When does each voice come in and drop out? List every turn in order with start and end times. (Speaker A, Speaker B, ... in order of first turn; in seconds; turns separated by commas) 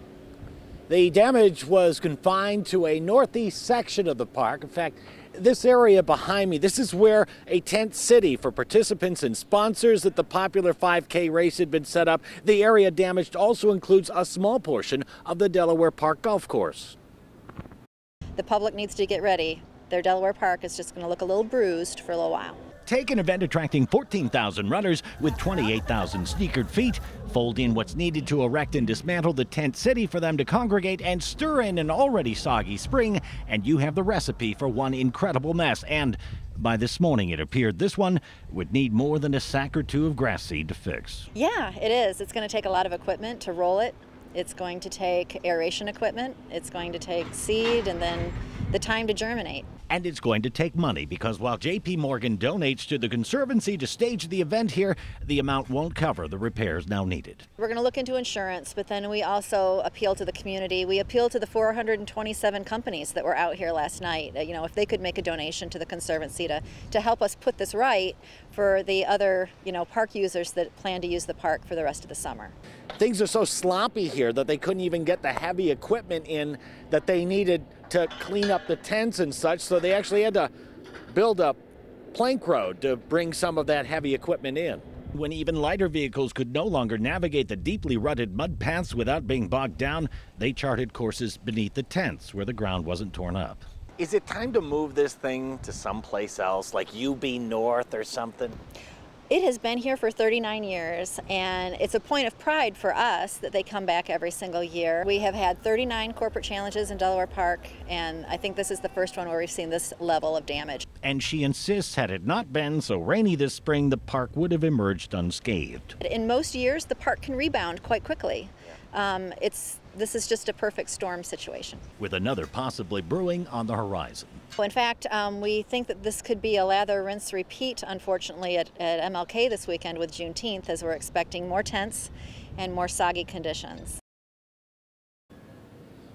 Speaker A: 0.9-16.9, Speaker B: 18.4-22.6, Speaker A: 22.9-41.3, Speaker B: 41.3-49.7, Speaker A: 49.9-57.4, Speaker B: 57.6-72.5, Speaker A: 73.0-80.5, Speaker A: 81.1-81.6, Speaker A: 82.1-98.6, Speaker B: 99.3-110.8, Speaker A: 111.0-115.9, Speaker B: 116.0-121.8, Speaker A: 122.0-124.4, Speaker B: 124.6-134.0